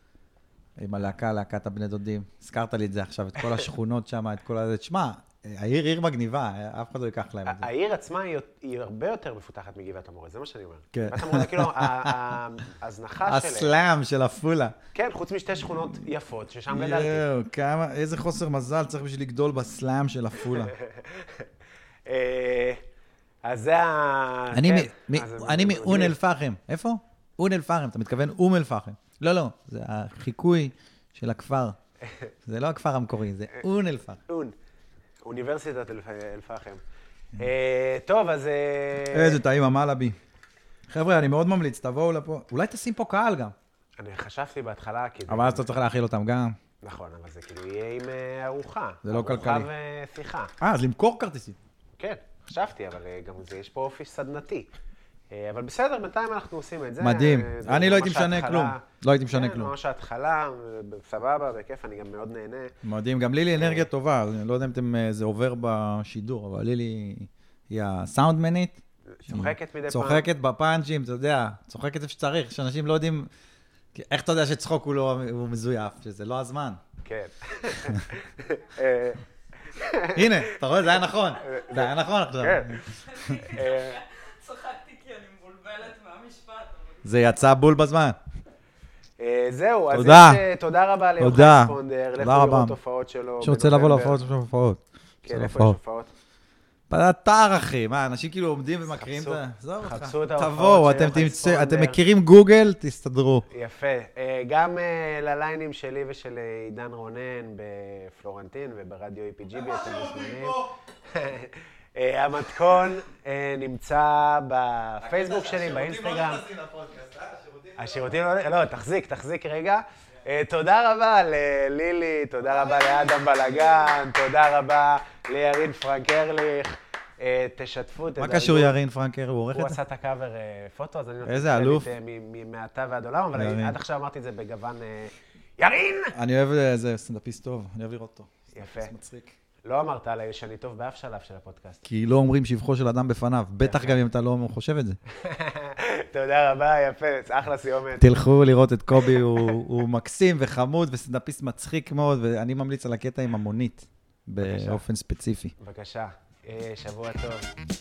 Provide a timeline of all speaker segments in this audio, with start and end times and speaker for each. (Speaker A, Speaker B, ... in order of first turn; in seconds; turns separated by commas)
Speaker A: 0.8-7.7, Speaker B: 7.5-13.8, Speaker A: 10.9-12.4, Speaker A: 13.2-14.8, Speaker B: 14.9-17.2, Speaker A: 16.7-20.7, Speaker B: 20.5-21.5, Speaker B: 22.1-22.8, Speaker B: 23.4-26.2, Speaker A: 24.5-31.8, Speaker A: 32.5-34.2, Speaker B: 34.3-34.5, Speaker B: 35.2-36.8, Speaker B: 37.4-39.4, Speaker A: 39.1-40.2, Speaker A: 40.9-43.5, Speaker B: 44.0-45.8, Speaker A: 45.3-46.6, Speaker B: 46.8-50.5, Speaker A: 49.0-49.7, Speaker A: 50.6-51.6, Speaker B: 52.0-54.7, Speaker B: 55.3-62.7, Speaker A: 57.0-59.7, Speaker A: 62.8-73.3, Speaker B: 63.6-63.9, Speaker B: 69.1-70.3, Speaker A: 73.9-76.8, Speaker B: 77.0-80.8, Speaker A: 80.1-83.5, Speaker B: 81.4-82.8, Speaker C: 83.0-87.1, Speaker B: 83.5-84.0, Speaker A: 87.0-88.2, Speaker B: 89.2-94.2, Speaker A: 89.9-90.4, Speaker A: 91.2-92.8, Speaker A: 93.4-95.8, Speaker B: 95.2-96.1, Speaker A: 96.9-103.5, Speaker B: 98.9-102.0, Speaker B: 103.5-116.4, Speaker A: 109.5-110.7, Speaker A: 115.0-118.2, Speaker B: 117.8-128.8, Speaker A: 122.5-123.3, Speaker A: 128.2-129.8, Speaker B: 129.5-136.2, Speaker A: 131.2-131.9, Speaker A: 133.3-133.8, Speaker A: 136.1-139.3, Speaker B: 138.5-138.9, Speaker B: 139.7-141.8, Speaker A: 141.8-145.0, Speaker B: 143.6-144.0, Speaker B: 145.1-148.1, Speaker A: 148.0-155.6, Speaker B: 149.1-149.6, Speaker B: 154.4-154.8, Speaker B: 155.6-157.5